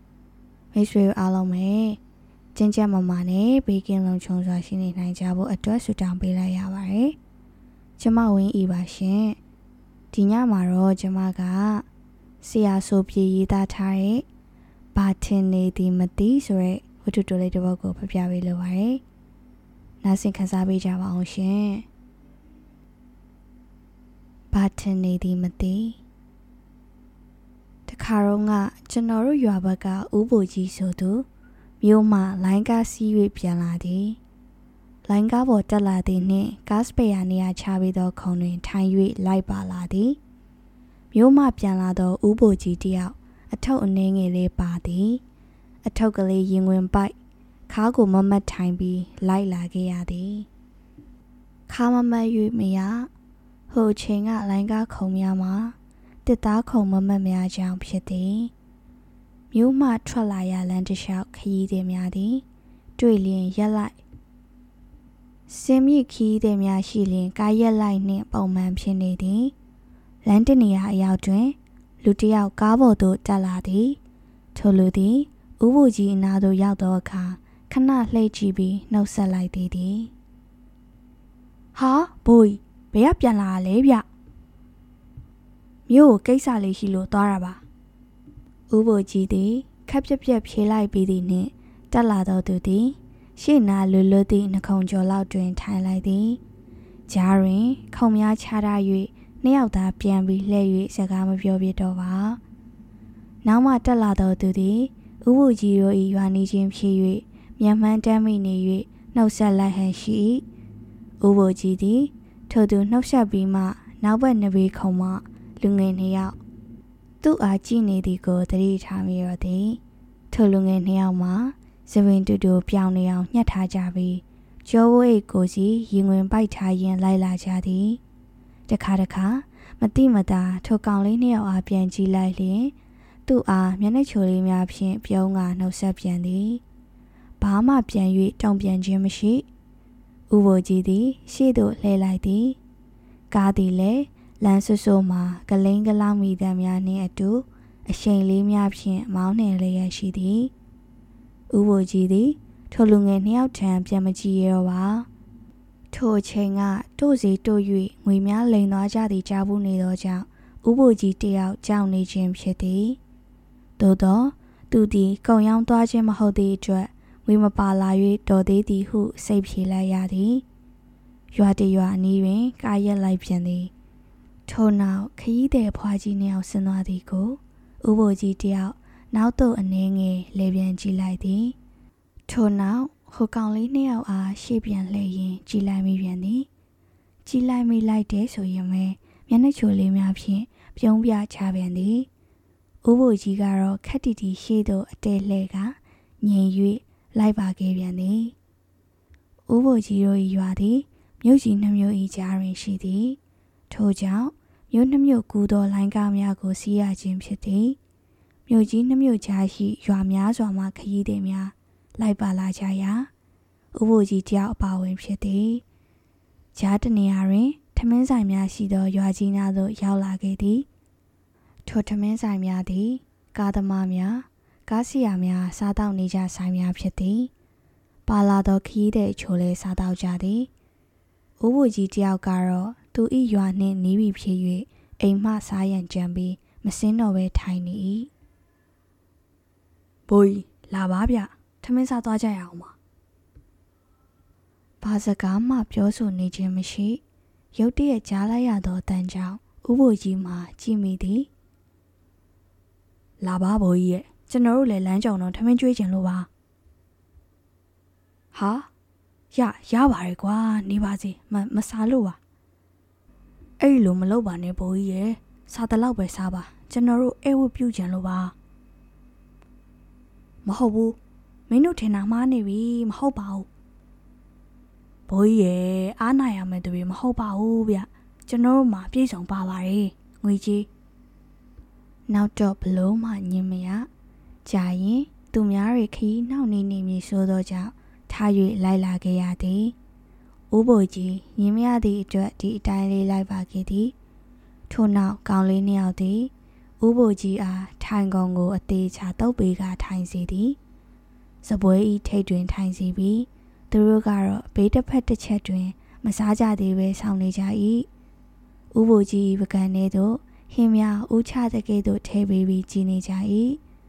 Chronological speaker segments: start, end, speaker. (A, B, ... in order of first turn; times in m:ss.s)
0:00.7-0:02.0 A
0:02.6-0:07.2 A
0:08.0-0:09.4 A
0:10.1-0:11.9 A
0:12.4-0:14.3 A
0:15.0-0:19.0 A
0:20.0-0:21.9 A
0:24.5-0:26.0 A
0:27.9-0:31.3 A
0:31.8-0:34.2 A
0:35.1-0:40.2 A
0:41.1-0:45.2 A
0:45.8-0:47.2 A
0:47.7-0:50.5 A
0:51.7-0:53.1 A
0:53.7-0:58.5 A
0:59.5-1:02.4 A
1:03.0-1:04.0 A
1:05.5-1:09.6 A
1:10.2-1:14.0 A
1:14.6-1:20.1 A
1:21.8-1:24.0 A
1:25.9-1:27.6 A
1:28.7-1:36.4 A
1:37.1-1:42.4 A
1:43.4-1:50.4 A
1:51.2-1:56.4 A
1:57.2-2:08.0 A
2:08.7-2:12.8 A
2:13.3-2:16.6 A
2:17.4-2:19.5 A
2:20.3-2:22.6 A
2:23.3-2:30.5 A
2:31.5-2:35.1 A
2:35.9-2:43.0 A
2:43.8-2:50.4 A
2:51.3-2:53.7 A
2:54.5-3:01.6 A
3:02.3-3:06.5 A
3:07.2-3:12.1 A
3:12.8-3:18.4 A
3:19.5-3:23.2 A
3:23.7-3:27.8 A
3:28.5-3:33.1 A
3:33.7-3:35.6 A
3:36.6-3:40.7 A
3:41.6-3:47.3 A
3:48.1-3:50.5 A
3:51.4-3:58.1 A
4:00.1-4:02.8 A
4:04.8-4:07.0 A
4:07.5-4:11.3 A
4:13.2-4:16.3 A
4:18.3-4:18.7 A
4:19.3-4:22.2 A
4:23.6-4:28.4 A
4:30.4-4:31.0 A
4:31.5-4:33.5 A
4:35.1-4:40.7 A
4:42.1-4:43.9 A
4:44.4-4:49.8 A
4:50.5-4:54.0 A
4:54.7-5:00.6 A
5:01.4-5:07.9 A
5:08.7-5:13.6 A